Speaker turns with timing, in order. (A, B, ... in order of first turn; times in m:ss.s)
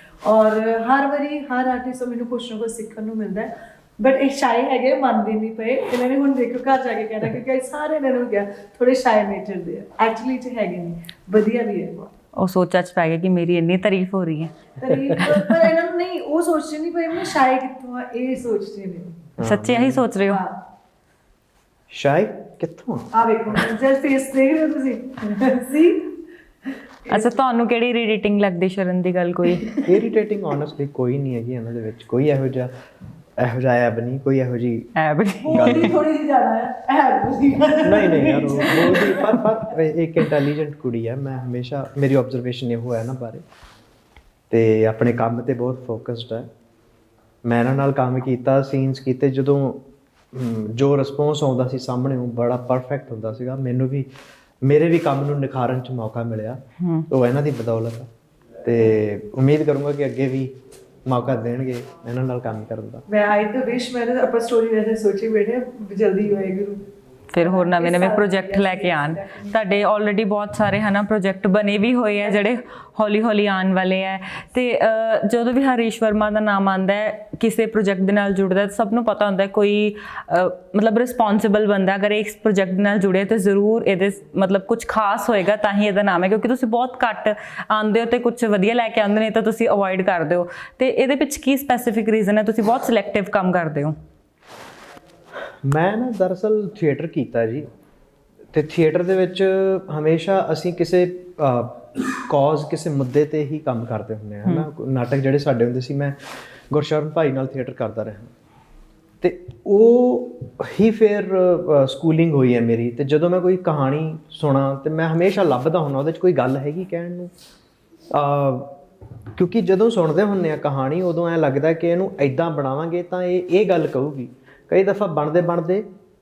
0:00.2-0:12.1 A
0:12.4-0:14.5 B
0:14.8-0:19.2 A
0:14.9-0:15.2 C
0:19.4-0:20.0 C
0:19.4-0:20.4 B
0:20.2-0:20.6 A
0:21.9-0:23.1 C
0:23.1-0:26.1 A
0:27.0-0:27.4 A
0:27.1-0:29.7 B
0:29.6-0:29.9 A
0:29.8-0:32.7 C
0:33.4-0:34.9 C
0:35.0-0:35.9 B
0:35.4-0:39.5 A
0:35.5-0:36.0 C
0:37.8-0:43.4 C
0:44.5-0:46.5 C
0:47.4-0:54.1 C
0:54.6-0:58.1 C
0:56.8-0:57.1 B
0:58.6-1:00.5 C
1:01.1-1:03.0 C
1:03.1-1:06.9 A
1:07.3-1:33.9 B
1:07.4-1:09.8 A
1:12.2-1:12.5 A
1:35.6-1:37.7 C
1:38.5-1:46.2 C
1:46.7-1:48.3 C
1:49.2-1:57.3 C
1:58.1-1:58.8 C
1:59.4-2:05.9 C